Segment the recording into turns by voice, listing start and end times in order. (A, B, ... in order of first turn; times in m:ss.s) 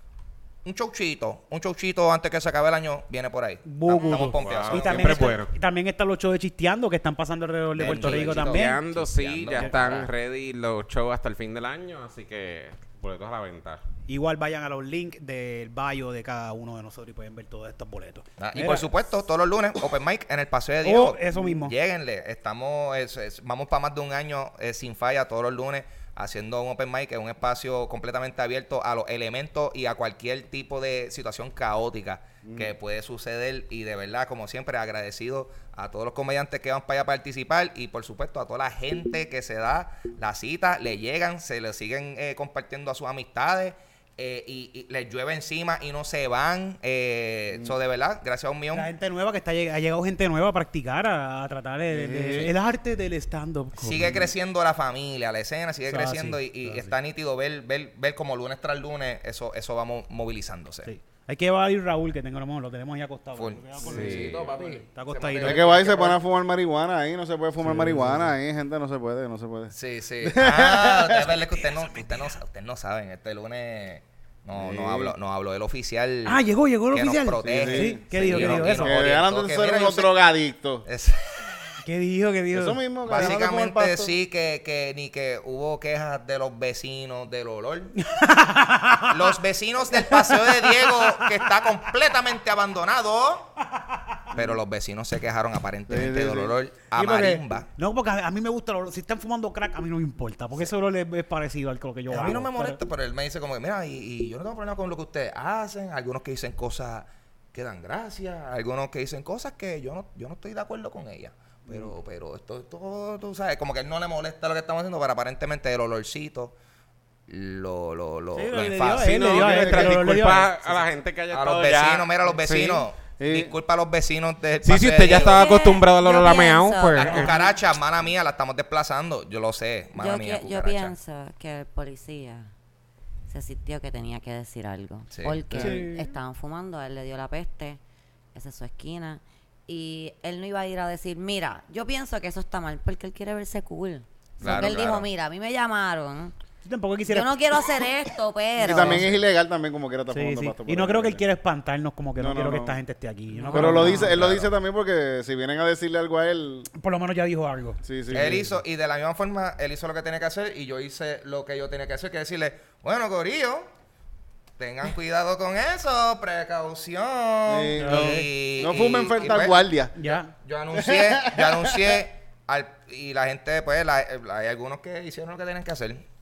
0:00.6-0:05.4 A
0:03.6-0:09.0 B
0:04.2-0:05.5 C
0:07.8-0:10.1 A
0:07.8-0:13.8 C
0:09.5-0:10.0 B
0:14.1-0:18.9 B
0:18.4-0:48.9 A
0:20.8-0:21.7 B
0:32.4-0:32.7 D
0:48.7-0:54.3 B
0:51.9-0:52.5 D
0:53.8-1:00.9 A
0:55.9-0:56.9 B
1:00.8-1:06.1 B
1:03.4-1:06.2 A
1:03.8-1:04.5 C
1:05.4-1:11.5 D
1:07.6-1:08.3 B
1:09.7-1:16.4 A
1:14.5-1:15.1 D
1:16.2-1:19.0 B
1:16.9-1:20.2 A
1:17.4-1:20.8 D
1:20.8-1:21.5 A
1:21.8-1:23.4 B
1:22.5-1:24.1 D
1:23.0-1:27.9 A
1:28.0-1:29.4 B
1:29.1-1:33.5 A
1:30.0-1:31.6 B
1:33.7-1:34.2 B
1:34.3-1:37.7 A
1:35.9-1:36.5 D
1:36.9-1:42.8 B
1:42.1-1:56.5 A
1:57.3-2:00.0 A
1:58.3-2:00.9 B
1:58.8-2:02.8 C
1:59.4-2:00.2 D
2:01.3-2:05.5 A
2:03.2-2:03.5 D
2:04.6-2:07.3 C
2:05.1-2:07.4 E
2:07.0-2:10.9 A
2:10.0-2:12.5 E
2:13.3-2:17.8 E
2:15.1-2:15.8 A
2:15.5-2:16.1 B
2:18.3-2:26.3 E
2:24.4-2:25.1 A
2:26.6-2:27.9 B
2:27.1-2:29.0 E
2:28.6-2:31.2 D
2:28.7-2:29.2 B
2:30.1-2:34.4 B
2:32.2-2:32.8 D
2:33.3-2:34.2 E
2:33.5-2:36.7 D
2:33.6-2:34.5 A
2:36.7-2:38.2 B
2:37.8-2:38.6 D
2:38.1-2:43.7 A
2:44.6-2:56.0 A
2:47.5-2:49.9 D
2:47.8-2:48.3 B
2:50.0-2:50.3 B
2:50.7-2:52.0 D